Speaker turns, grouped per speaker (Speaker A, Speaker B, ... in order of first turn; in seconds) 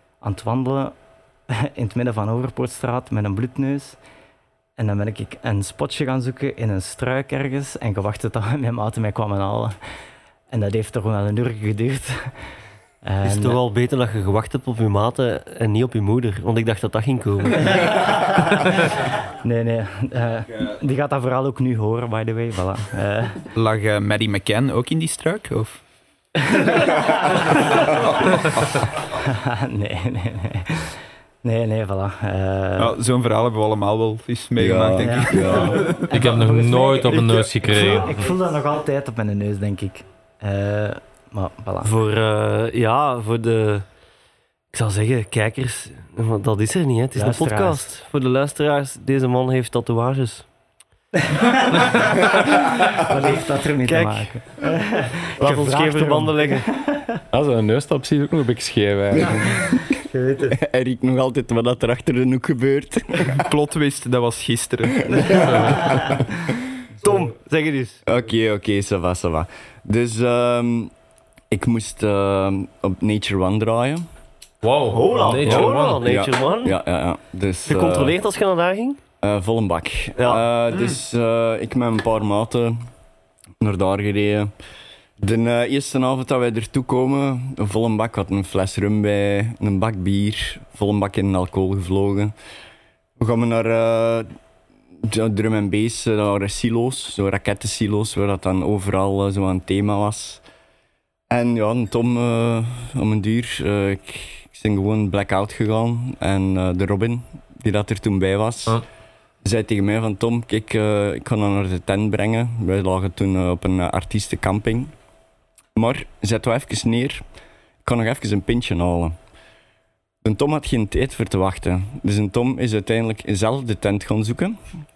Speaker A: 0.2-0.9, 1.5-4.0, 4.8-9.8, 10.5-12.3, 13.0-13.6, 17.9-23.5, 26.4-28.1, 29.0-33.0, 35.0-41.9, 47.1-47.9, 51.2-57.2, 59.9-60.6
Speaker B: 13.2-18.3, 41.8-43.9, 44.7-50.5, 53.9-54.3, 55.4-56.7, 67.0-68.0, 74.9-76.8, 77.7-79.0, 80.2-80.4
Speaker C: 23.6-25.8, 32.8-36.1, 63.3-65.3
Speaker D: 34.6-36.0, 60.5-63.4, 65.1-66.6, 68.1-70.9, 71.5-74.0, 75.4-78.2, 79.2-82.8, 83.6-84.5, 85.2-92.3, 93.2-94.3, 95.0-100.4, 101.3-108.8, 109.4-114.9, 115.8-117.2, 117.8-119.2, 120.2-124.6
Speaker E: 36.1-38.2, 65.4-65.9, 74.6-76.0
Speaker F: 57.3-59.7